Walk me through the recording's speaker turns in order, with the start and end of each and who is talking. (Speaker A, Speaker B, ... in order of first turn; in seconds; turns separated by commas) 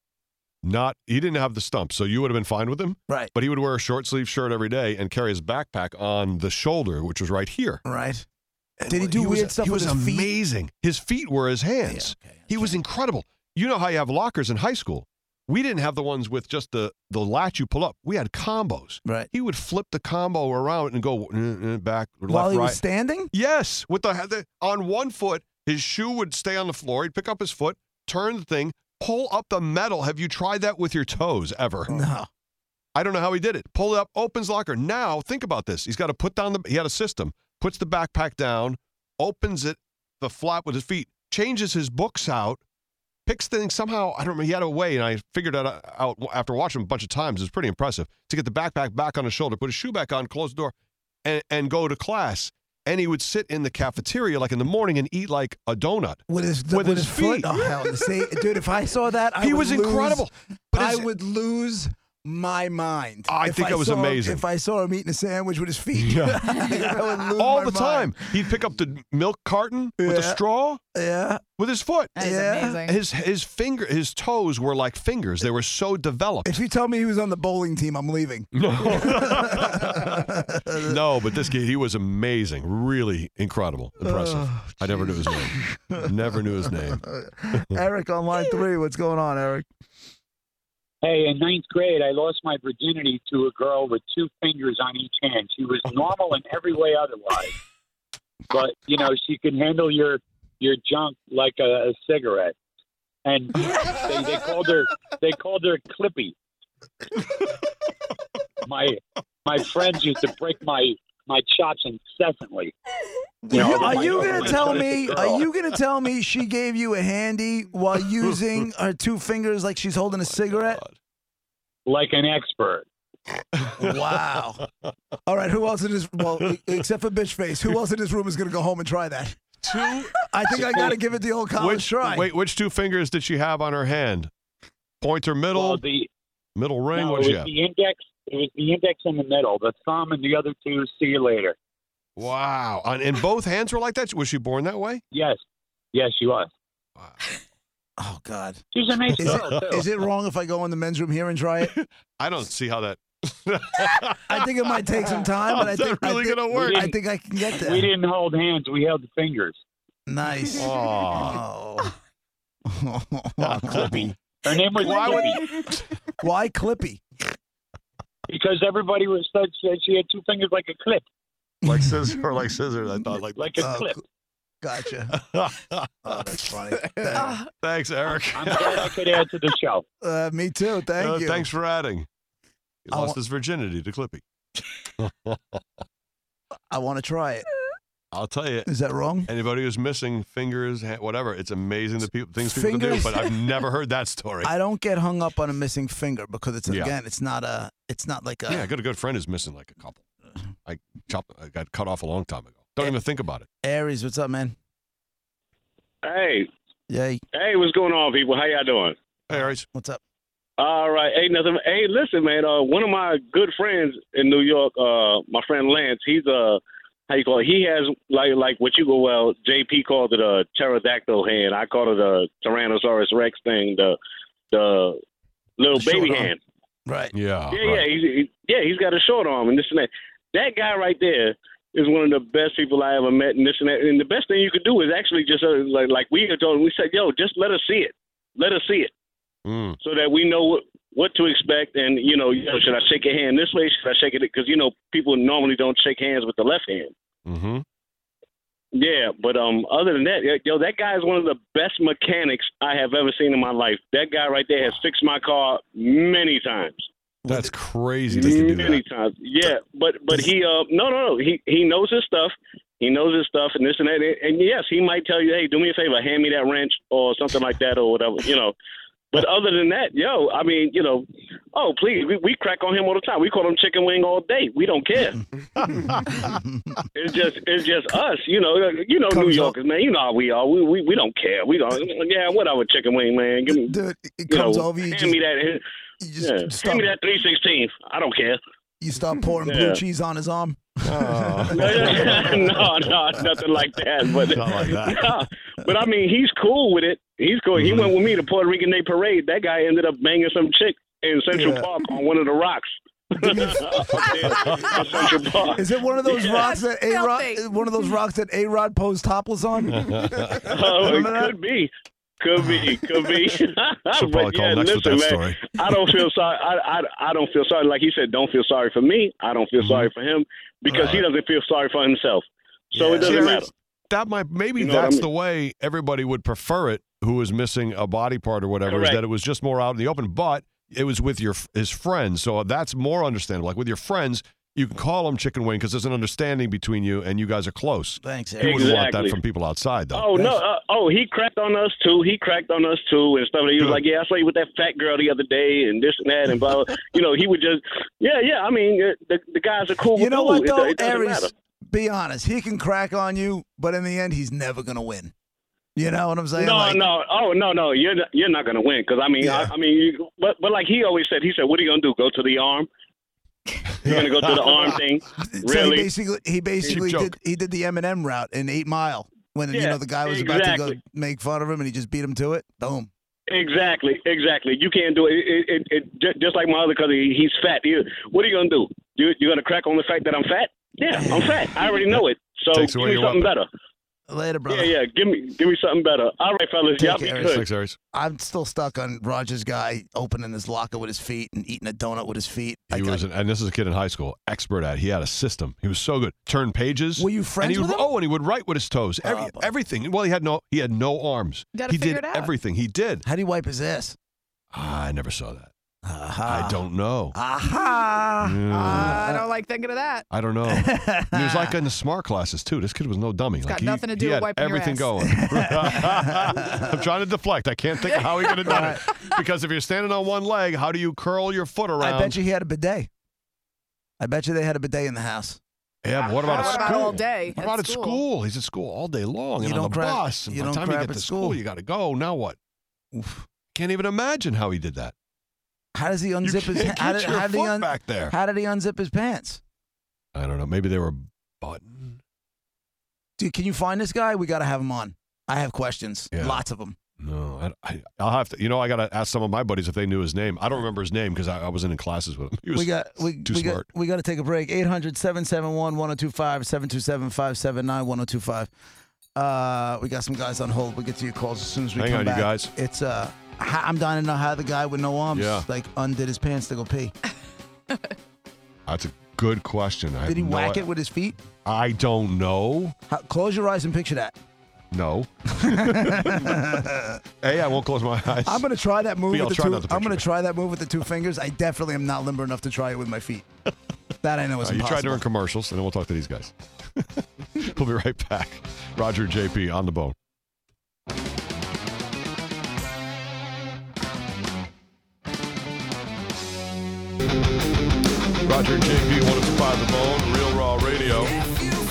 Speaker A: 0.6-7.8, Speaker B: 7.8-8.3, Speaker A: 8.8-22.8, Speaker B: 8.9-10.3, Speaker B: 11.8-12.8, Speaker B: 19.1-19.3, Speaker B: 22.3-23.3, Speaker A: 23.3-32.0, Speaker B: 31.9-32.3, Speaker A: 33.0-42.6, Speaker A: 43.3-50.7, Speaker A: 51.2-58.1, Speaker B: 56.3-68.4, Speaker A: 59.4-61.1, Speaker A: 63.3-64.4, Speaker A: 66.0-70.8, Speaker B: 70.0-70.4, Speaker B: 70.9-71.4, Speaker A: 71.6-72.2, Speaker C: 72.2-73.0, Speaker B: 72.2-72.8, Speaker A: 72.8-76.5, Speaker B: 76.5-81.0, Speaker A: 78.5-87.7, Speaker B: 84.0-89.7, Speaker D: 91.0-97.5, Speaker D: 98.5-102.5, Speaker D: 103.2-106.4, Speaker D: 108.7-112.8, Speaker D: 113.5-115.5, Speaker B: 113.5-120.8, Speaker A: 113.5-114.9, Speaker A: 120.4-120.9, Speaker D: 121.9-122.9, Speaker A: 123.6-124.0, Speaker B: 123.8-124.6, Speaker B: 125.3-129.4, Speaker A: 129.6-131.0, Speaker B: 130.2-132.3, Speaker A: 131.6-134.3, Speaker A: 135.0-135.8, Speaker D: 135.5-136.1, Speaker A: 136.6-137.5, Speaker D: 136.9-141.6, Speaker A: 142.2-145.0, Speaker D: 145.1-145.4, Speaker D: 145.9-146.5, Speaker A: 147.0-147.2, Speaker B: 148.0-151.7, Speaker D: 148.7-149.9, Speaker A: 151.7-156.9, Speaker B: 154.3-157.9, Speaker D: 156.5-157.0, Speaker D: 157.5-159.6, Speaker B: 160.1-161.9, Speaker A: 160.5-161.4, Speaker B: 162.7-164.1, Speaker A: 163.4-164.1, Speaker D: 163.8-165.5, Speaker A: 164.8-165.9, Speaker B: 166.2-167.0, Speaker D: 168.3-171.0, Speaker B: 171.6-172.1, Speaker A: 171.6-173.7, Speaker D: 173.4-174.0, Speaker B: 173.6-174.0, Speaker B: 174.6-175.2, Speaker A: 175.1-176.2, Speaker B: 176.0-177.4, Speaker A: 177.2-179.1, Speaker D: 178.3-179.8, Speaker B: 180.0-181.5, Speaker A: 181.0-182.1, Speaker A: 182.9-184.2, Speaker B: 182.9-183.2, Speaker A: 185.0-185.6, Speaker B: 186.7-187.5, Speaker A: 188.1-188.7, Speaker B: 188.7-189.3, Speaker A: 189.3-194.5, Speaker B: 192.4-193.3, Speaker B: 194.4-198.7, Speaker A: 196.7-196.9, Speaker A: 198.5-200.0, Speaker A: 200.7-203.5, Speaker B: 203.6-204.6, Speaker E: 206.0-206.5, Speaker B: 206.9-207.2, Speaker E: 207.3-208.9, Speaker A: 209.3-209.7, Speaker B: 209.3-210.0, Speaker E: 210.6-224.0, Speaker E: 224.5-225.0, Speaker E: 225.6-226.4, Speaker B: 225.8-226.3, Speaker B: 226.9-227.1, Speaker A: 227.1-227.8, Speaker E: 227.5-238.9, Speaker A: 239.4-239.8, Speaker E: 239.8-246.9, Speaker A: 247.3-247.6, Speaker E: 248.7-256.9, Speaker B: 257.2-257.5, Speaker A: 257.3-258.8, Speaker E: 258.1-268.5, Speaker E: 269.1-275.2, Speaker B: 275.7-276.8, Speaker E: 276.9-283.8, Speaker B: 279.1-279.6, Speaker B: 283.5-285.2, Speaker E: 284.3-285.6, Speaker B: 286.0-286.9, Speaker E: 286.2-288.4, Speaker B: 288.8-292.7, Speaker E: 289.5-289.8, Speaker A: 290.8-292.7, Speaker E: 291.5-305.6, Speaker A: 294.3-295.1, Speaker A: 297.6-297.9, Speaker B: 301.3-301.7, Speaker B: 303.2-304.1, Speaker A: 303.8-304.8, Speaker B: 305.5-311.4, Speaker C: 306.1-307.6, Speaker A: 309.7-310.5, Speaker E: 310.4-323.5, Speaker A: 313.9-315.6, Speaker A: 319.6-319.9, Speaker A: 320.7-321.0, Speaker A: 322.8-340.2, Speaker E: 324.6-325.1, Speaker E: 328.7-329.0, Speaker B: 338.0-338.8, Speaker E: 338.4-339.2, Speaker E: 339.9-351.3, Speaker B: 349.9-355.1, Speaker B: 355.8-356.8, Speaker E: 356.4-362.7, Speaker B: 359.2-359.5, Speaker A: 363.8-364.8, Speaker E: 363.8-365.9, Speaker B: 365.3-372.9, Speaker A: 366.6-367.1, Speaker E: 369.5-370.8, Speaker E: 373.3-383.5, Speaker B: 380.9-381.5, Speaker A: 382.5-383.3, Speaker B: 384.1-384.8, Speaker E: 384.5-387.4, Speaker B: 386.8-393.0, Speaker A: 387.2-387.8, Speaker A: 392.7-403.1, Speaker B: 397.0-397.9, Speaker B: 399.0-399.5, Speaker C: 401.6-402.3, Speaker B: 403.1-404.0, Speaker A: 404.5-405.5, Speaker B: 405.8-409.3, Speaker A: 406.3-407.2, Speaker A: 408.2-409.0, Speaker C: 408.5-410.1, Speaker A: 410.1-422.2, Speaker B: 410.5-411.6, Speaker C: 413.4-414.9, Speaker B: 415.0-416.7, Speaker C: 417.9-418.4, Speaker B: 418.4-418.8, Speaker B: 421.8-422.9, Speaker B: 424.0-425.4, Speaker A: 425.8-432.4, Speaker C: 426.1-428.0, Speaker B: 426.4-426.9, Speaker B: 429.4-431.4, Speaker B: 432.9-433.2, Speaker A: 433.5-434.9, Speaker B: 435.8-439.4, Speaker A: 436.2-438.1, Speaker A: 440.1-442.0, Speaker B: 443.2-446.8, Speaker A: 446.1-446.4, Speaker A: 447.0-453.6, Speaker B: 452.5-458.5, Speaker B: 459.1-466.9, Speaker A: 461.8-462.5, Speaker A: 465.1-465.5, Speaker A: 468.7-470.7, Speaker B: 470.1-471.2, Speaker A: 471.4-472.8, Speaker B: 472.9-474.2, Speaker A: 474.7-476.4, Speaker B: 475.3-477.0, Speaker A: 477.2-478.4, Speaker B: 478.2-483.3, Speaker A: 479.1-480.0, Speaker B: 484.0-485.0, Speaker A: 484.4-489.9, Speaker A: 498.2-501.2